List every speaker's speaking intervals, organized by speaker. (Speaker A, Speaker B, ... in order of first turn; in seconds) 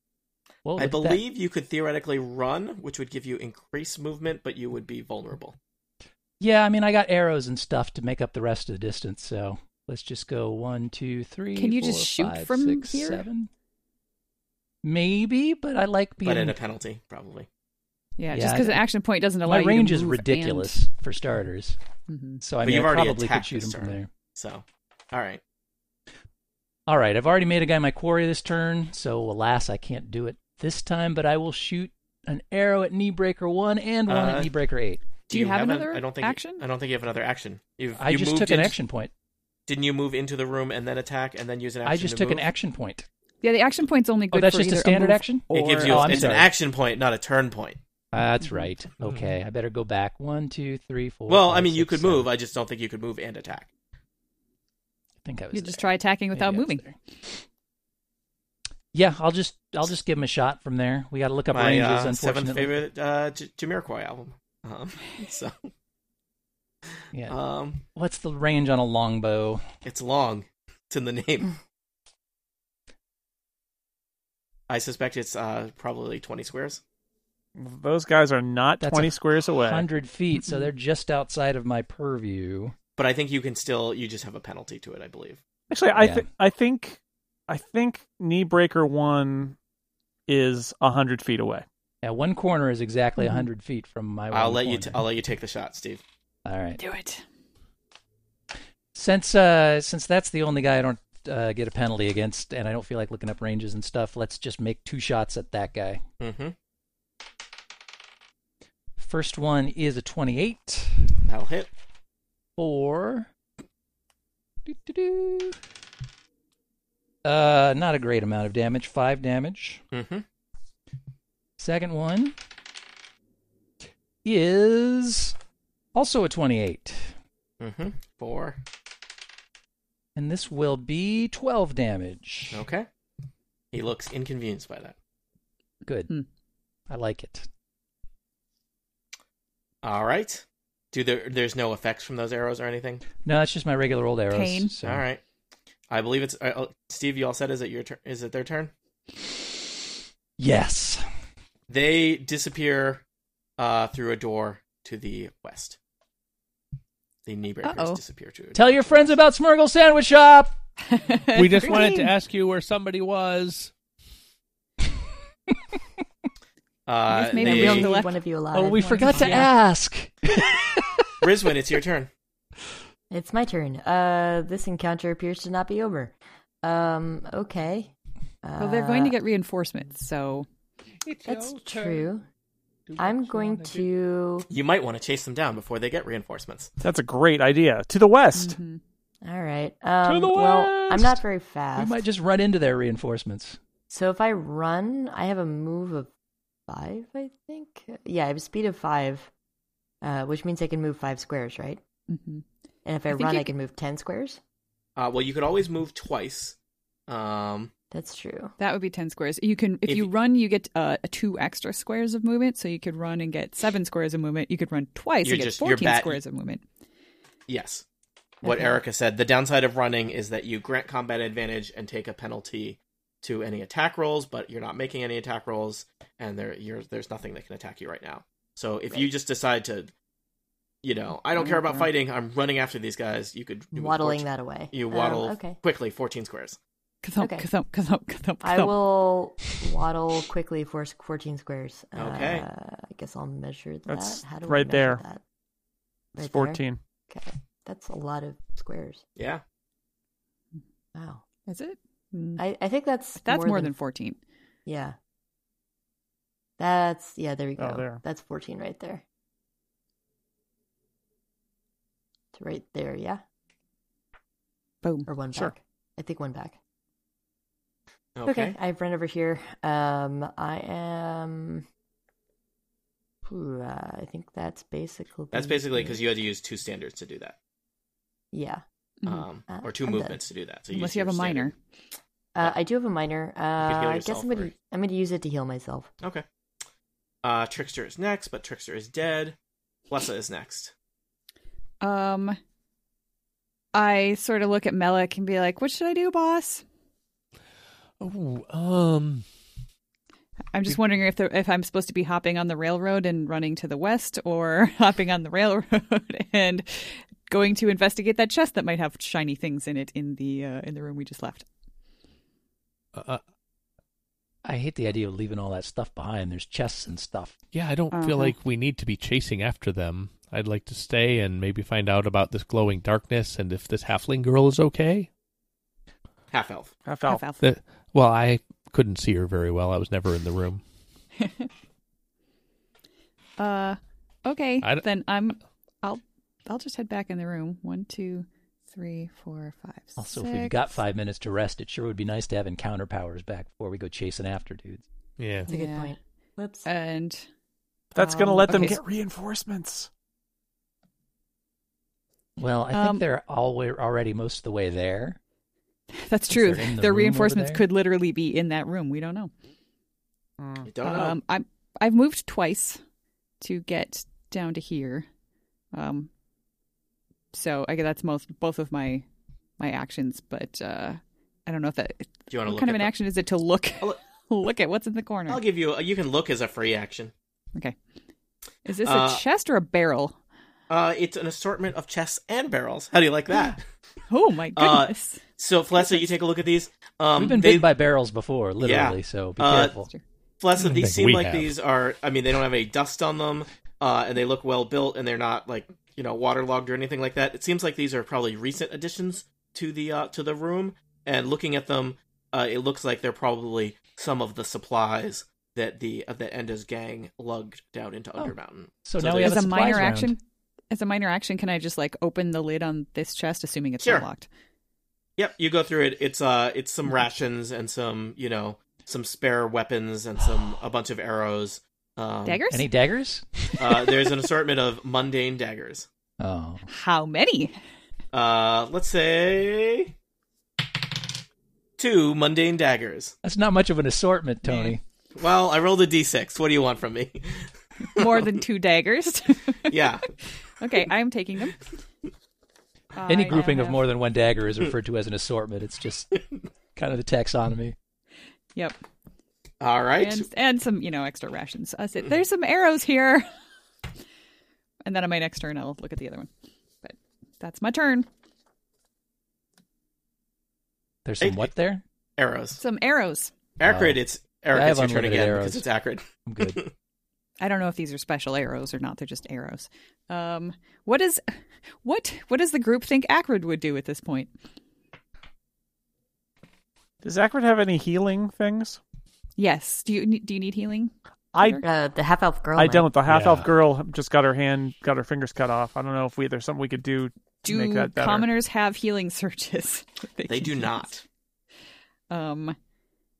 Speaker A: 0.6-1.2, 6.4-13.5, 14.8-16.6, 18.3-18.9, 19.4-21.8, 22.4-24.1, 26.9-35.0, 38.0-39.1, 41.8-43.1, 44.3-46.5, 48.1-52.3, 55.2-57.0, 58.9-62.8, 67.1-67.4, 67.9-69.6, 78.8-82.7, 85.9-86.3, 92.0-95.0, 96.4-96.8, 98.9-106.0, 109.0-111.1, 112.6-113.3, 114.6-115.6, 117.2-119.8, 121.6-122.3, 124.2-125.3, 125.9-127.1, 130.2-132.6, 135.8-136.1, 136.9-137.5, 143.2-145.0, 150.4-151.0, 158.5-160.5, 168.5-170.5, 190.1-191.2, 191.8-193.6, 314.4-317.4, 340.0-344.8, 352.4-355.2, 356.3-357.6, 387.1-389.9, 408.2-410.1, 422.5-424.0, 426.2-426.6, 433.2-434.8, 443.1-446.1, 446.8-447.7, 461.0-461.8, 463.6-464.0, 464.5-465.6, 466.2-466.6, 483.1-483.4
Speaker B: 0.8-5.5, 16.2-17.5, 22.6-25.4, 34.1-34.5, 35.3-38.7, 39.7-42.4, 45.5-47.8, 51.3-53.7, 61.5-65.5, 67.3-67.8, 69.8-71.6, 74.7-76.8, 83.0-85.4, 94.3-96.0, 106.2-106.5, 111.2-111.7, 119.9-120.2, 127.6-128.6, 132.5-132.9, 133.7-134.9, 139.8-143.0, 144.8-145.2, 145.9-148.7, 151.7-153.0, 153.6-155.8, 157.2-159.1, 166.9-168.0, 171.2-172.1, 184.5-186.7, 204.9-206.6, 207.1-207.7, 215.2-216.2, 217.5-217.8, 218.4-229.9, 230.8-236.6, 241.9-242.4, 249.2-249.4, 268.1-268.6, 275.3-277.4, 279.1-281.5, 283.6-284.5, 287.2-289.4, 289.9-290.7, 326.3-326.8, 360.6-361.2, 372.3-372.9, 375.3-377.1, 378.8-379.2, 380.7-383.6, 384.6-387.7, 388.6-389.7, 390.4-409.6, 413.8-414.1, 415.2-422.4, 423.6-425.9, 428.1-429.9, 431.8-433.1, 435.1-438.3, 439.7-440.1, 449.6-450.3, 461.2-461.5, 462.2-462.6, 463.6-466.7, 490.3-491.0
Speaker C: 11.6-13.2, 18.2-20.8, 22.1-22.4, 35.3-36.6, 43.4-45.3, 45.9-46.2, 48.4-48.7, 55.5-56.9, 93.2-93.4, 96.8-97.2, 144.3-144.7, 157.6-158.0, 160.9-162.1, 167.1-169.5, 178.6-180.5, 188.3-188.8, 202.1-202.4, 203.1-203.5, 208.6-216.6, 231.3-231.9, 237.0-238.8, 251.5-252.4, 253.2-254.2, 264.8-265.1, 279.0-279.3, 280.7-281.5, 291.8-292.4, 293.7-296.6, 300.5-311.4, 317.9-318.3, 327.0-327.4, 331.2-331.5, 333.4-340.6, 345.5-345.9, 346.6-347.2, 348.1-348.8, 352.7-353.0, 355.9-359.3, 360.8-362.8, 363.4-365.1, 365.7-366.1, 367.3-369.0, 369.6-375.4, 378.6-380.2, 384.1-385.2, 385.7-386.0, 409.2-410.2, 410.7-414.3, 422.2-422.7, 426.7-427.6, 434.4-434.8, 437.9-439.8, 440.5-441.6, 442.9-443.8, 450.0-453.3, 454.8-456.3, 456.8-458.1, 462.6-463.3, 467.4-471.3, 471.8-474.3, 479.4-481.6, 487.4-490.9, 492.1-492.6
Speaker D: 49.0-49.3, 161.3-163.7, 181.0-182.1, 182.9-183.9, 190.3-190.9, 298.0-299.2, 312.9-313.2, 317.5-325.1, 327.4-330.6, 345.2-345.5, 390.6-391.5, 483.1-483.5
Speaker E: 77.5-79.9, 85.7-89.5, 90.3-91.6, 186.8-188.6, 243.9-245.0, 246.2-246.8, 257.6-258.0, 326.9-327.2, 347.9-349.9, 360.4-360.7, 477.0-478.8, 481.3-481.6, 482.5-488.3
Speaker F: 167.4-169.4, 173.1-179.2, 181.2-182.2, 183.0-184.5, 189.2-192.0, 193.9-196.1, 196.7-199.3, 200.0-201.8, 202.8-204.4, 207.9-208.5, 218.4-218.8, 233.7-235.6, 237.2-237.5, 238.4-245.2, 246.1-249.0, 250.9-251.2, 252.4-253.7, 254.7-254.9, 256.6-259.0, 262.3-263.2, 265.1-266.6, 268.2-271.6, 273.2-276.0, 278.3-278.6, 279.5-280.2, 282.3-285.9, 345.5-346.7, 348.0-348.8, 481.6-482.9